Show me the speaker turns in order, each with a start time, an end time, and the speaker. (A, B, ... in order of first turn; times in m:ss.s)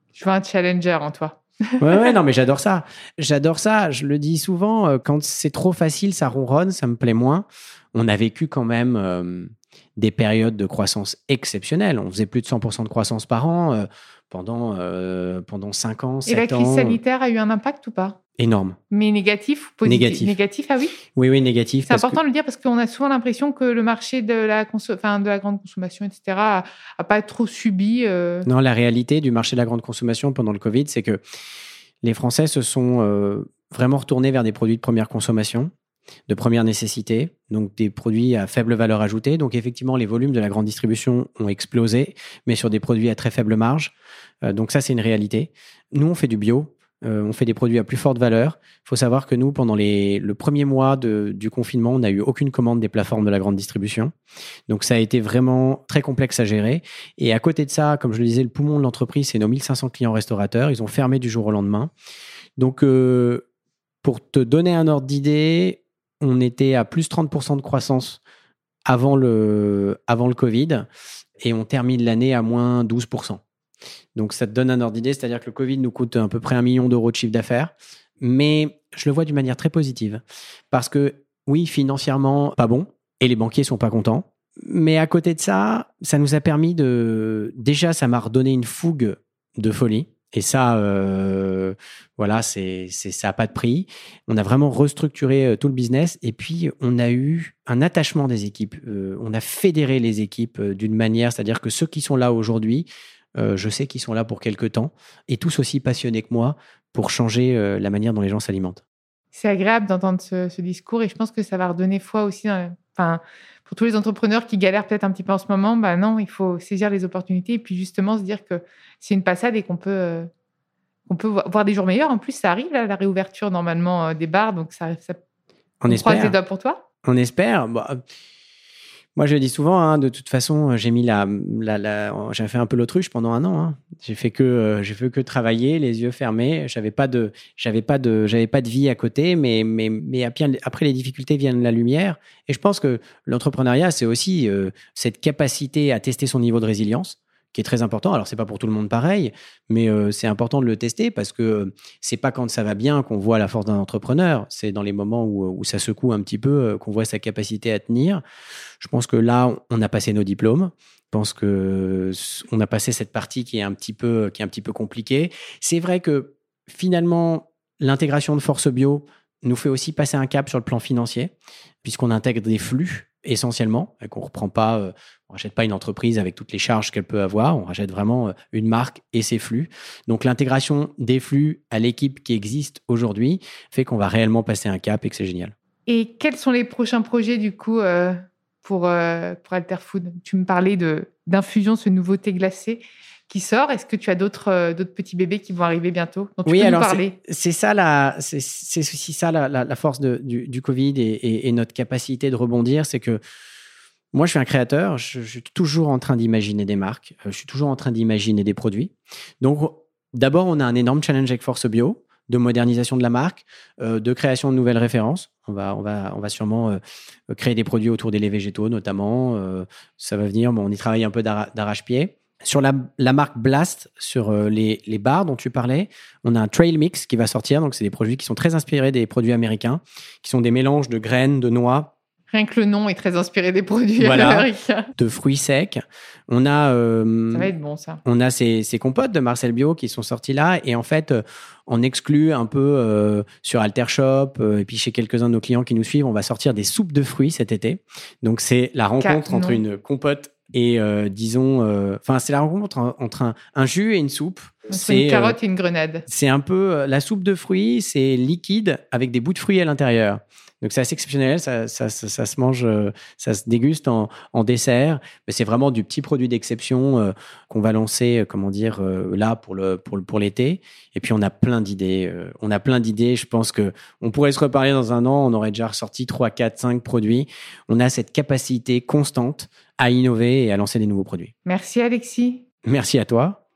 0:00.1-0:02.1 A
0:01.8-0:17.0 B
0:16.2-0:18.2 A
0:18.4-0:18.8 B
0:18.9-0:21.0 A
0:19.8-0:20.4 B
0:21.1-0:22.2 B
0:21.8-0:28.5 A
0:28.4-0:31.2 B
0:32.0-0:35.7 B
0:36.3-0:43.9 B
0:44.4-0:54.1 B
0:54.7-1:01.9 B
1:02.6-1:03.4 B
1:04.0-1:08.2 B
1:08.9-1:10.8 B
1:11.4-1:13.4 B
1:14.1-1:48.8 B
1:49.3-2:00.3 A
2:01.1-2:05.2 A
2:05.8-2:06.4 B
2:05.9-2:06.8 A
2:07.0-2:08.0 B
2:09.2-2:38.2 B
2:38.8-3:05.5 B
3:05.9-3:17.2 A
3:16.4-3:23.2 B
3:24.1-3:51.9 B
3:52.3-3:54.9 A
3:54.0-3:57.5 B
3:57.3-3:58.0 A
3:58.0-4:15.4 B
4:09.0-4:09.6 A
4:14.7-4:16.0 A
4:16.1-4:41.3 B
4:41.4-4:42.4 A
4:42.6-4:43.4 B